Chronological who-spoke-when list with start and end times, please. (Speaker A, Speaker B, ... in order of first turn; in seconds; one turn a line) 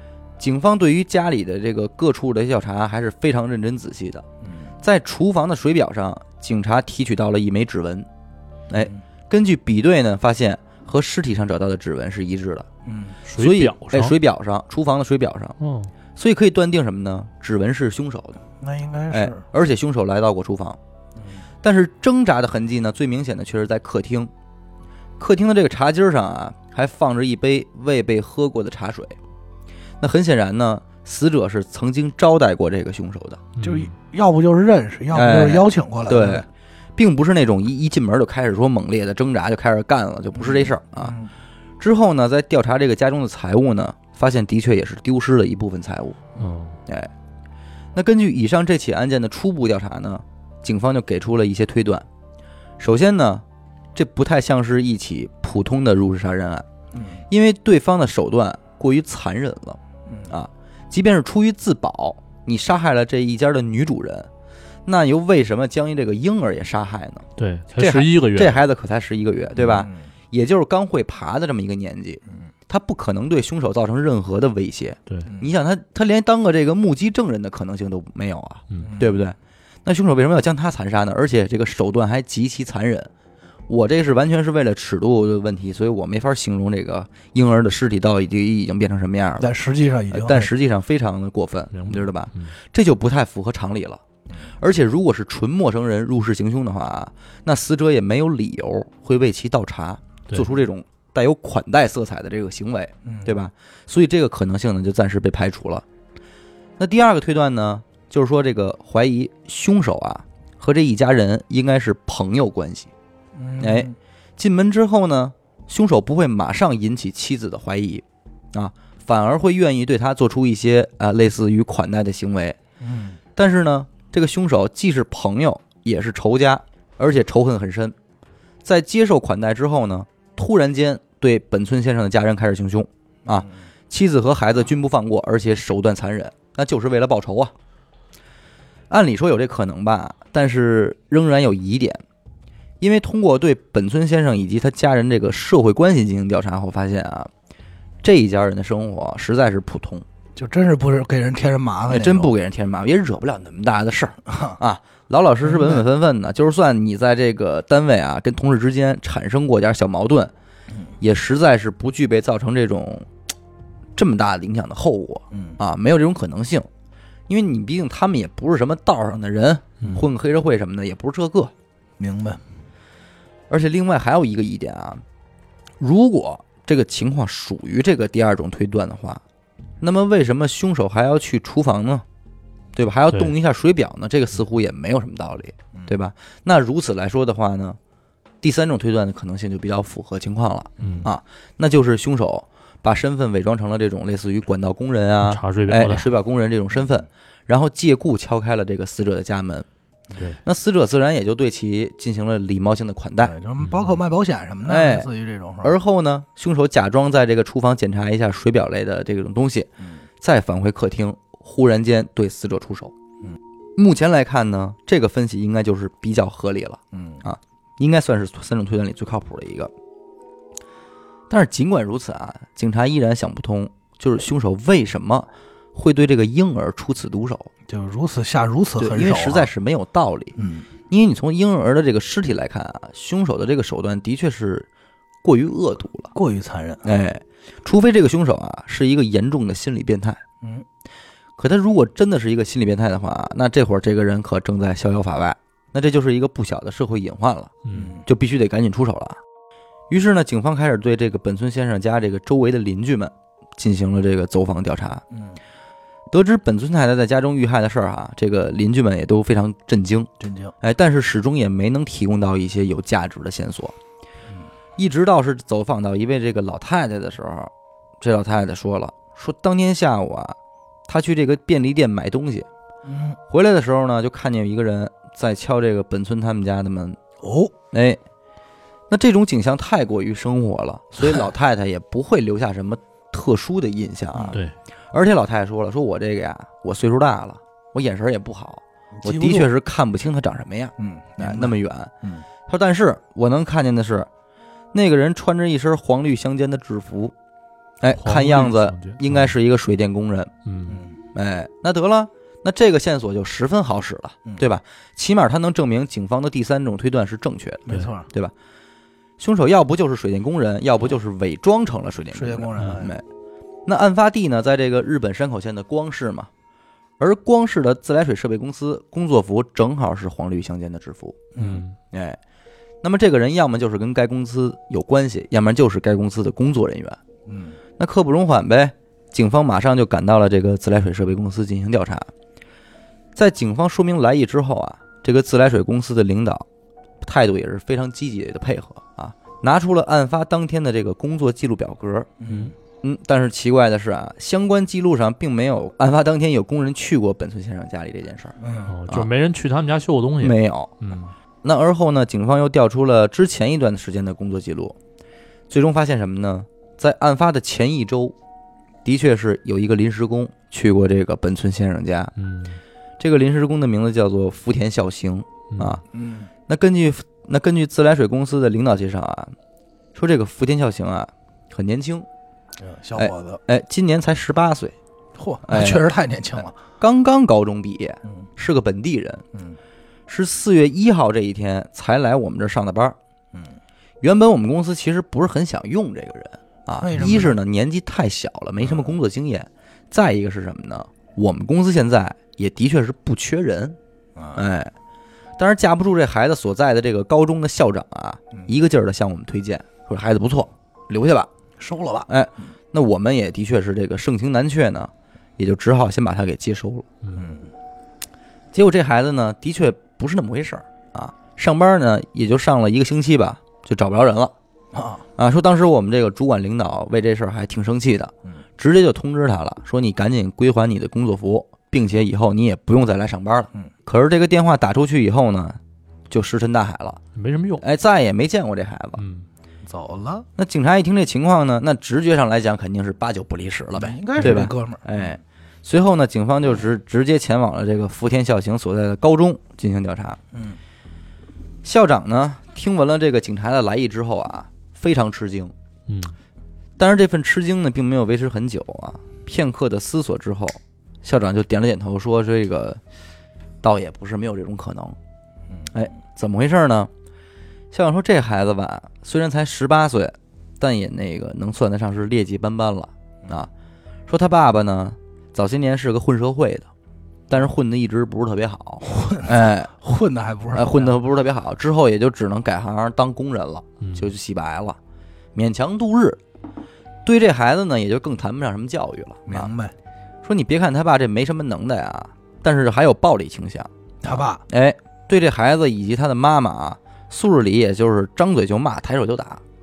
Speaker A: 0.4-4.2
Speaker B: 4.4-4.7
Speaker A: 4.8-8.1
Speaker A: 8.7-12.7
Speaker B: 12.8-13.2
Speaker C: 13.3-14.1
Speaker A: 13.4-15.6
Speaker C: 15.6-15.9
Speaker A: 16.1-18.4
Speaker B: 18.6-19.4
Speaker A: 19.1-20.8
Speaker B: 21.2-21.4
Speaker A: 21.6-24.3
Speaker A: 25.2-29.1
Speaker A: 30.0-33.4
Speaker C: 33.6-33.9
Speaker B: 33.6-36.5
Speaker A: 35.1-41.2
Speaker B: 40.3-41.3
Speaker A: 41.8-46.2
Speaker C: 46.4-46.8
Speaker A: 47.9-52.0
Speaker A: 52.8-53.4
Speaker A: 53.9-56.6
Speaker B: 56.9-57.2
Speaker A: 57.3-64.3
Speaker B: 60.0-60.3
Speaker A: 64.8-67.3
Speaker C: 67.4-68.6
Speaker A: 67.8-83.1
Speaker B: 69.8-70.1
Speaker B: 75.2-75.5
Speaker B: 78.8-79.2
Speaker A: 83.7-89.5
Speaker B: 89.4-90.5
Speaker A: 90.1-94.0
Speaker C: 91.7-92.5
Speaker A: 94.6-105.8
Speaker B: 103.0-103.3
Speaker A: 106.8-112.9
Speaker B: 113.3-114.0
Speaker A: 113.6-122.6
Speaker B: 122.8-123.2
Speaker A: 123.3-127.9
Speaker A: 128.6-137.5
Speaker A: 138.9-142.0
Speaker A: 142.8-147.3
Speaker A: 148.0-150.0
Speaker B: 150.3-152.3
Speaker A: 151.9-160.3
Speaker B: 154.3-154.6
Speaker B: 155.4-155.8
Speaker A: 161.0-163.1
Speaker A: 164.0-166.7
Speaker B: 165.3-165.6
Speaker A: 167.3-171.5
Speaker B: 172.0-172.4
Speaker A: 173.5-175.0
Speaker A: 175.8-179.2
Speaker A: 179.8-182.0
Speaker A: 182.7-187.8
Speaker A: 188.4-199.7
Speaker B: 190.8-191.1
Speaker C: 190.8-191.1
Speaker C: 195.2-196.1
Speaker A: 200.4-203.3
Speaker B: 203.2-205.8
Speaker C: 203.6-203.9
Speaker A: 204.6-205.1
Speaker A: 205.6-212.9
Speaker A: 213.8-219.7
Speaker B: 216.9-217.2
Speaker A: 221.3-227.5
Speaker B: 227.7-229.5
Speaker A: 228.8-230.4
Speaker B: 230.4-230.7
Speaker A: 230.9-234.7
Speaker A: 235.2-236.1
Speaker B: 236.1-236.9
Speaker A: 236.8-240.2
Speaker A: 241.4-247.5
Speaker C: 247.6-247.9
Speaker B: 247.7-248.1
Speaker A: 248.1-249.2
Speaker A: 249.9-255.0
Speaker B: 255.1-255.4
Speaker A: 256.1-260.1
Speaker B: 260.2-260.5
Speaker A: 260.6-263.8
Speaker A: 264.8-270.4
Speaker A: 270.9-272.5
Speaker B: 272.8-273.2
Speaker A: 273.3-277.0
Speaker B: 277.2-277.5
Speaker A: 277.7-278.0
Speaker A: 278.9-284.4
Speaker A: 284.9-291.9
Speaker B: 289.0-289.5
Speaker B: 290.8-292.2
Speaker A: 292.5-294.1
Speaker A: 294.7-297.1
Speaker A: 297.8-300.3
Speaker C: 297.9-299.3
Speaker C: 300.4-300.8
Speaker B: 300.7-301.0
Speaker A: 301.1-308.3
Speaker B: 307.7-308.1
Speaker A: 309.2-313.0
Speaker B: 312.1-312.9
Speaker A: 313.6-316.3
Speaker A: 317.0-321.3
Speaker B: 321.3-321.6
Speaker C: 321.4-321.7
Speaker A: 321.9-322.2
Speaker A: 322.8-327.0
Speaker B: 327.3-327.6
Speaker A: 327.8-332.1
Speaker A: 333.1-336.4
Speaker A: 337.0-342.1
Speaker B: 342.2-342.5
Speaker A: 342.8-348.3
Speaker B: 348.4-348.8
Speaker C: 348.7-351.1
Speaker A: 350.2-350.7
Speaker A: 351.4-354.8
Speaker A: 355.5-358.1
Speaker A: 358.8-362.1
Speaker C: 362.2-362.6
Speaker A: 363.0-365.8
Speaker C: 365.5-365.8
Speaker B: 365.9-366.3
Speaker A: 366.5-369.3
Speaker A: 369.9-372.1
Speaker B: 372.6-373.4
Speaker A: 372.9-374.7
Speaker B: 375.1-376.6
Speaker A: 375.4-375.9
Speaker A: 376.8-379.2
Speaker B: 379.3-379.6
Speaker A: 380.1-383.0
Speaker B: 383.3-383.6
Speaker A: 384.0-393.8
Speaker B: 386.8-387.4
Speaker B: 388.6-388.9
Speaker B: 394.1-394.4
Speaker A: 394.3-394.7
Speaker A: 395.4-401.3
Speaker B: 401.6-402.1
Speaker A: 402.1-406.9
Speaker B: 407.1-407.5
Speaker A: 408.5-414.3
Speaker B: 414.7-415.0
Speaker A: 415.2-425.6
Speaker A: 426.1-427.0
Speaker C: 427.1-427.6
Speaker A: 427.6-429.0
Speaker C: 429.0-429.3
Speaker B: 429.6-430.2
Speaker A: 430.4-440.2
Speaker B: 433.8-434.9
Speaker C: 434.2-434.5
Speaker B: 440.3-440.6
Speaker A: 441.6-445.5
Speaker C: 445.9-446.1
Speaker A: 446.8-452.8
Speaker A: 453.6-455.0
Speaker A: 455.7-456.9
Speaker A: 457.7-463.5
Speaker A: 464.1-466.7
Speaker A: 467.3-469.7
Speaker B: 468.8-470.9
Speaker A: 470.5-474.8
Speaker C: 473.8-474.1
Speaker A: 475.3-476.2
Speaker A: 477.0-479.5
Speaker B: 479.3-479.7
Speaker A: 480.2-489.4
Speaker B: 484.0-484.4